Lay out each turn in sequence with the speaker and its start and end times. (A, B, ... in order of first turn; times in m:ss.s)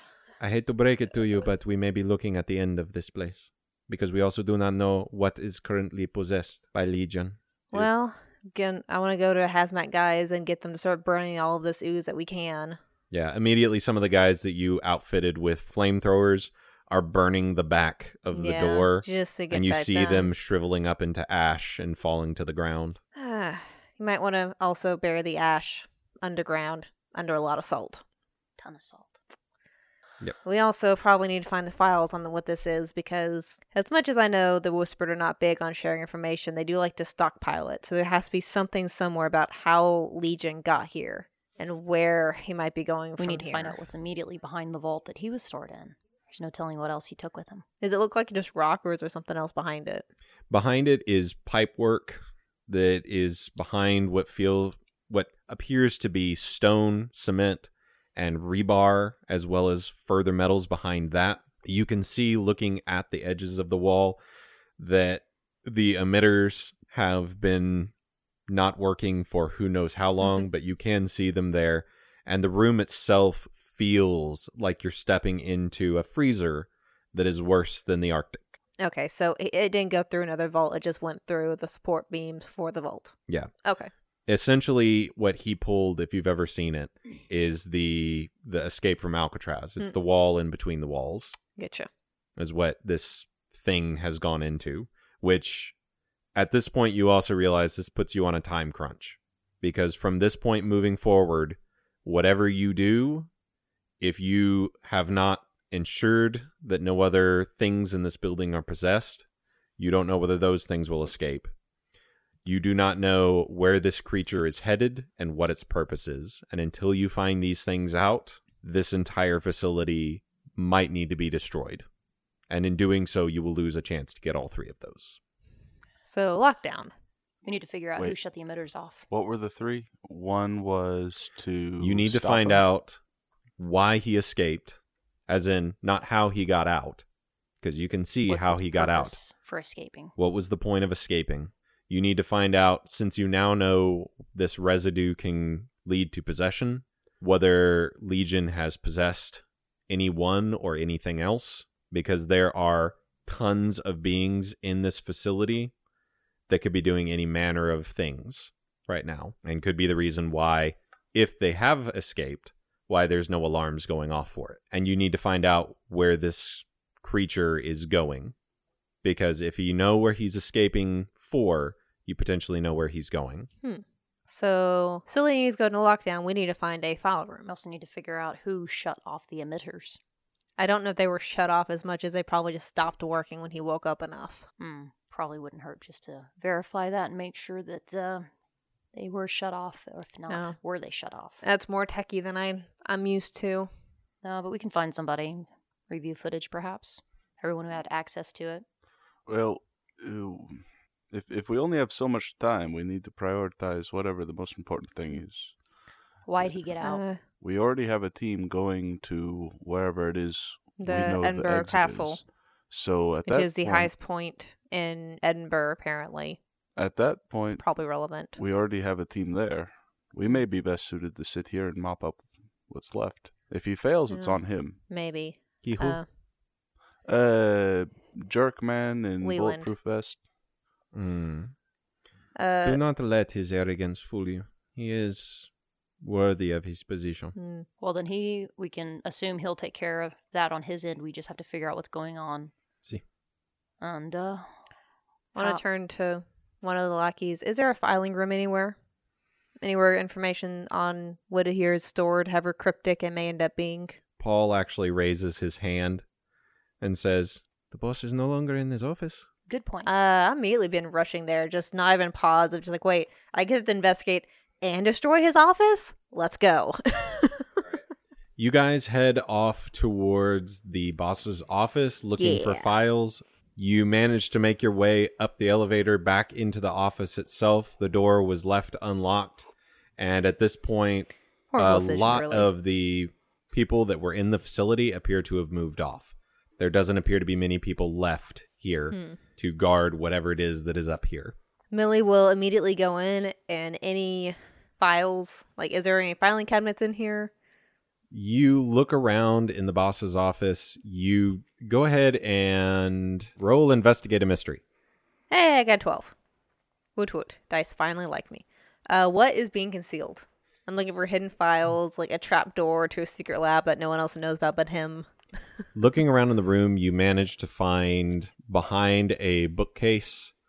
0:00.4-0:07.9 A
0:07.7-0:12.8 B
0:13.1-0:23.0 A
0:18.3-0:20.3 B
0:23.2-0:28.0 B
0:28.6-0:29.2 C
0:30.4-0:43.8 B
0:43.2-0:47.6 C
0:47.8-0:50.0 B
0:50.5-1:04.2 A
1:04.8-1:07.9 A
1:08.5-1:18.6 A
1:18.8-1:23.1 B
1:23.6-1:23.9 B
1:24.3-1:31.4 A
1:31.6-1:31.9 B
1:32.4-1:35.7 A
1:36.3-1:43.3 A
1:44.0-1:49.2 A
1:49.8-1:51.5 A
1:52.4-2:01.8 A
2:02.5-2:05.2 A
2:06.0-2:06.9 B
2:07.4-2:09.0 C
2:09.1-2:12.6 D
2:11.8-2:13.0 A
2:13.6-2:17.0 A
2:17.6-2:19.2 A
2:18.2-2:20.1 C
2:20.2-2:35.7 A
2:36.5-2:48.3 A
2:49.0-2:53.5 A
2:53.6-2:57.5 B
2:57.4-3:00.0 C
3:00.6-3:04.4 B
3:04.6-3:08.3 C
3:08.9-3:11.4 C
3:10.3-3:10.6 B
3:11.4-3:13.7 B
3:14.2-3:18.6 C
3:19.3-3:25.6 D
3:26.2-3:27.0 C
3:26.8-3:27.2 B
3:27.4-3:33.9 D
3:30.8-3:32.2 B
3:33.2-3:36.4 B
3:36.8-3:37.6 D
3:37.6-3:38.4 B
3:38.3-3:44.8 D
3:44.1-3:46.0 B
3:45.6-3:46.0 A
3:47.0-3:50.2 D
3:49.2-3:49.7 B
3:50.9-3:51.5 A
3:52.4-3:52.8 B
3:52.6-3:55.5 A
3:56.0-3:57.3 A
3:57.3-3:57.6 B
3:57.8-4:02.5 C
4:03.8-4:04.5 C
4:05.3-4:08.8 B
4:05.4-4:05.6 C
4:09.6-4:14.0 B
4:14.2-4:16.0 A
4:16.8-4:19.3 A
4:19.5-4:19.9 C
4:19.8-4:27.6 B
4:28.4-4:39.5 A
4:32.2-4:32.7 B
4:40.0-4:51.3 A
4:41.5-4:42.5 B
4:48.9-4:49.2 B
4:51.7-4:57.3 B
4:58.1-5:04.6 A
5:05.3-5:06.1 B
5:07.0-5:15.1 B
5:15.7-5:20.3 A